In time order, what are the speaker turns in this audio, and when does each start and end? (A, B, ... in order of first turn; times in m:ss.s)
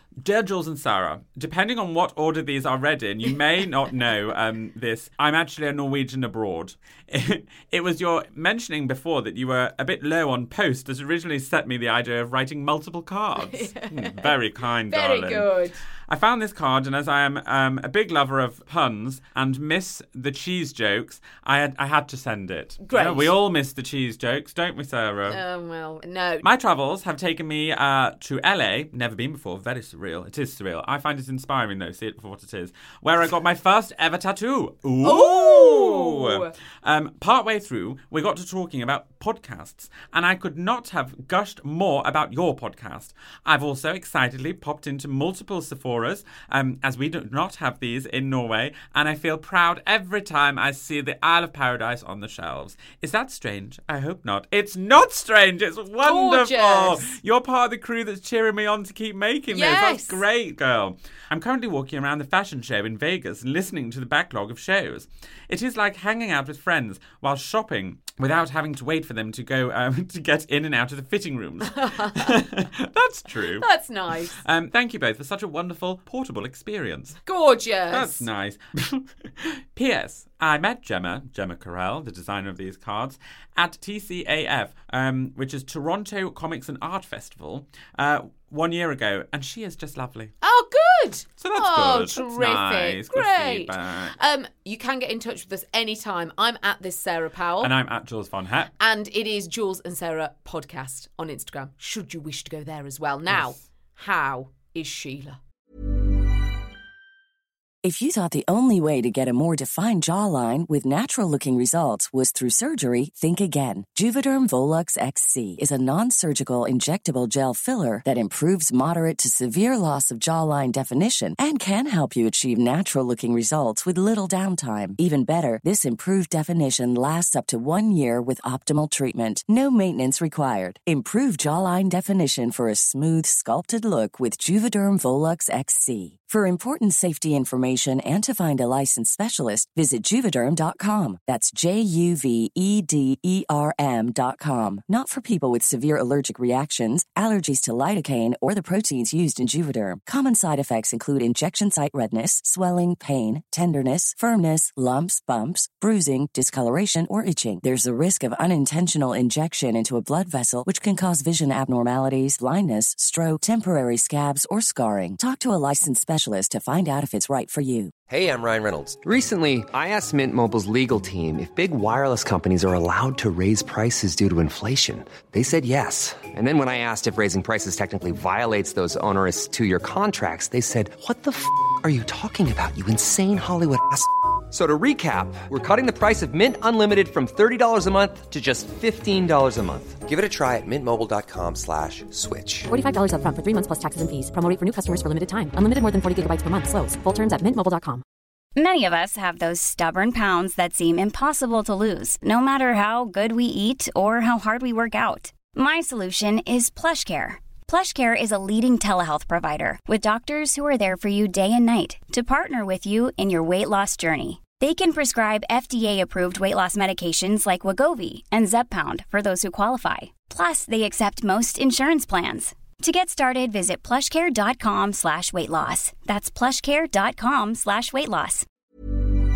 0:00.2-0:15.5 A
0:13.4-0:14.4 B
0:14.9-0:15.8 B
0:16.1-0:25.4 A
0:22.8-0:23.4 B
0:25.3-0:26.4 B
0:26.4-1:13.7 A
0:35.0-0:36.5 B
0:56.0-0:57.2 B
0:59.5-1:00.2 B
1:11.7-1:12.4 B
1:13.6-1:14.4 B
1:14.4-1:17.2 A
1:17.3-1:18.3 B
1:17.9-1:30.3 A
1:30.4-1:37.7 B
1:31.4-1:34.2 A
1:37.6-1:38.7 A
1:38.8-1:45.4 B
1:43.3-1:43.5 A
1:47.8-2:47.9 C
2:48.1-3:12.7 D
3:12.7-3:18.0 E
3:18.6-3:48.5 F